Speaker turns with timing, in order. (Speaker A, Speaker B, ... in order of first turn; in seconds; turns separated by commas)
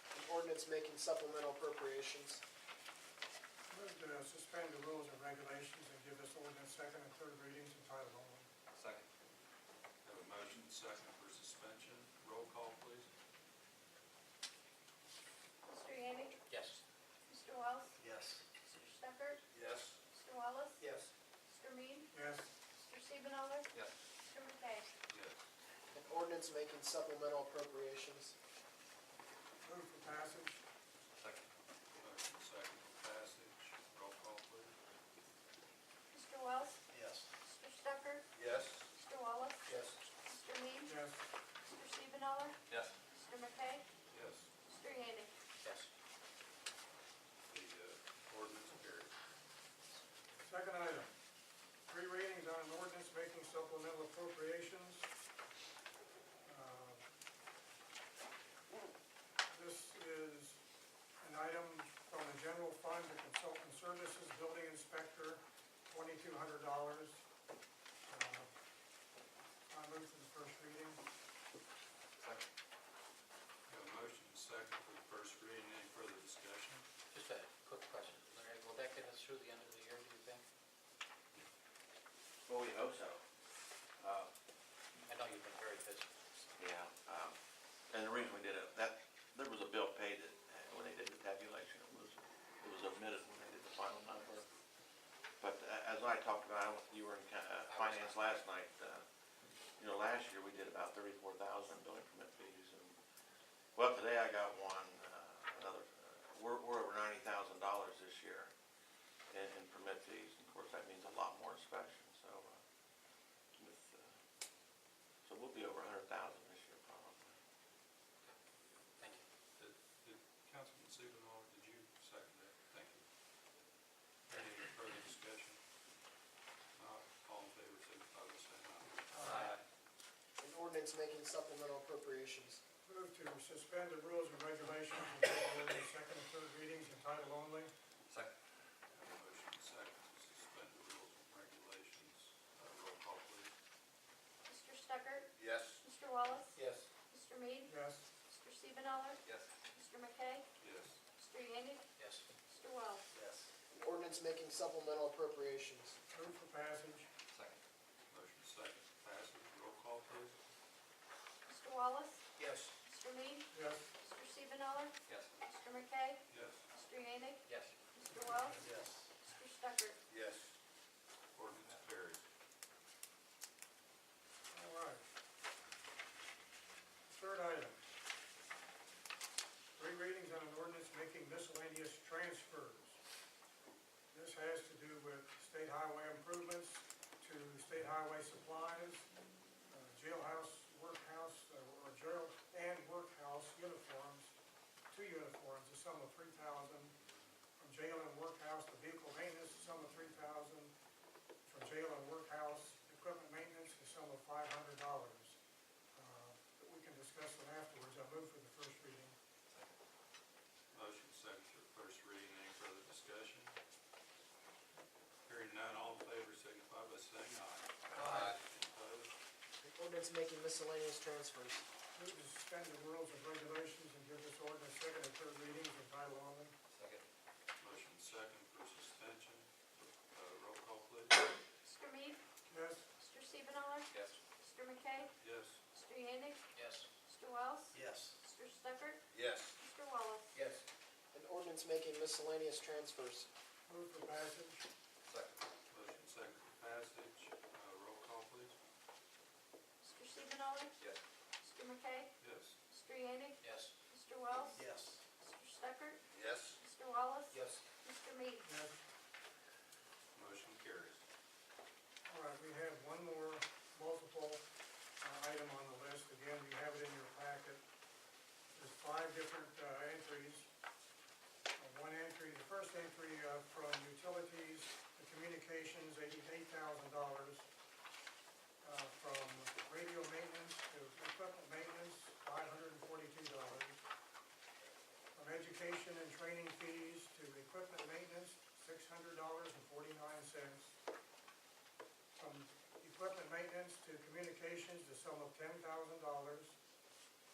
Speaker A: 0.1-2.4, Speaker B: 3.7-8.5, Speaker C: 8.7-9.0, Speaker D: 10.0-13.1, Speaker E: 15.7-16.5, Speaker E: 17.3-18.0, Speaker A: 18.0-18.4, Speaker E: 18.6-19.4, Speaker D: 19.5-20.0, Speaker E: 20.1-20.9, Speaker E: 21.5-22.1, Speaker B: 22.1-22.5, Speaker E: 22.7-23.7, Speaker E: 24.2-24.9, Speaker D: 25.1-25.4, Speaker A: 25.9-28.3, Speaker B: 29.6-30.6, Speaker C: 31.2-31.4, Speaker D: 31.9-34.7, Speaker E: 36.1-36.8, Speaker A: 36.9-37.3, Speaker E: 37.4-38.2, Speaker D: 38.3-38.9, Speaker E: 38.9-40.9, Speaker B: 40.9-41.3, Speaker E: 41.6-43.8, Speaker D: 44.1-44.5, Speaker E: 44.6-45.3, Speaker F: 45.6-45.9, Speaker D: 47.5-49.1, Speaker B: 50.4-51.1, Speaker B: 51.9-55.1, Speaker B: 56.5-57.0, Speaker B: 59.5-60.6, Speaker B: 61.2-67.2, Speaker B: 68.1-68.5, Speaker B: 69.7-71.0, Speaker C: 72.2-72.5, Speaker D: 73.7-76.8, Speaker F: 77.1-80.4, Speaker G: 82.5-83.2, Speaker G: 84.0-84.3, Speaker F: 85.1-86.1, Speaker G: 86.6-87.3, Speaker G: 87.9-94.5, Speaker G: 95.4-99.0, Speaker F: 97.7-98.3, Speaker G: 99.8-103.0, Speaker G: 103.7-108.5, Speaker G: 109.3-112.6, Speaker G: 113.6-114.1, Speaker G: 115.2-117.3, Speaker D: 119.6-123.0, Speaker D: 124.3-125.6, Speaker D: 126.7-129.6, Speaker B: 129.1-129.4, Speaker A: 130.4-132.6, Speaker B: 132.8-137.7, Speaker D: 138.9-143.5, Speaker E: 144.4-150.5, Speaker D: 145.3-145.8, Speaker F: 146.6-146.9, Speaker B: 147.7-148.1, Speaker D: 150.6-151.0, Speaker E: 151.1-153.1, Speaker A: 153.1-156.0, Speaker B: 156.1-157.1, Speaker C: 157.3-157.6, Speaker D: 158.1-160.3, Speaker E: 161.4-166.2, Speaker F: 162.4-162.7, Speaker B: 163.5-163.9, Speaker C: 165.1-165.3, Speaker D: 166.3-166.6, Speaker E: 166.7-168.7, Speaker F: 167.5-167.7, Speaker A: 168.6-169.0, Speaker E: 169.2-170.0, Speaker D: 170.1-170.6, Speaker D: 171.3-172.2, Speaker B: 174.5-175.0, Speaker B: 177.1-177.8, Speaker B: 179.8-183.0, Speaker B: 184.1-189.1, Speaker B: 189.7-194.3, Speaker B: 194.9-196.9, Speaker B: 197.6-200.7, Speaker B: 201.4-205.4, Speaker B: 205.9-209.2, Speaker D: 210.7-213.5, Speaker D: 215.2-219.1, Speaker C: 218.0-218.3, Speaker A: 219.6-221.6, Speaker B: 221.9-226.5, Speaker C: 226.7-227.0, Speaker D: 227.6-231.2, Speaker E: 231.6-232.2, Speaker B: 232.5-232.9, Speaker E: 232.9-235.1, Speaker C: 233.9-234.2, Speaker D: 235.2-235.6, Speaker E: 235.7-239.0, Speaker F: 236.6-236.8, Speaker A: 237.7-238.1, Speaker D: 239.1-239.6, Speaker E: 239.6-240.3, Speaker F: 240.3-240.6, Speaker A: 241.1-243.3, Speaker B: 243.7-244.6, Speaker C: 245.0-245.4, Speaker D: 245.7-248.6, Speaker E: 249.8-250.7, Speaker E: 251.4-252.1, Speaker D: 252.2-252.6, Speaker E: 252.7-254.6, Speaker F: 253.4-253.7, Speaker A: 254.5-255.0, Speaker E: 255.2-256.0, Speaker D: 256.1-256.6, Speaker E: 256.6-258.4, Speaker F: 257.3-257.6, Speaker B: 258.4-258.8, Speaker D: 260.1-261.0, Speaker B: 262.1-264.4, Speaker B: 265.0-267.6, Speaker B: 268.5-270.5, Speaker B: 271.6-277.5, Speaker B: 278.6-283.8, Speaker B: 285.1-290.8, Speaker B: 292.1-296.6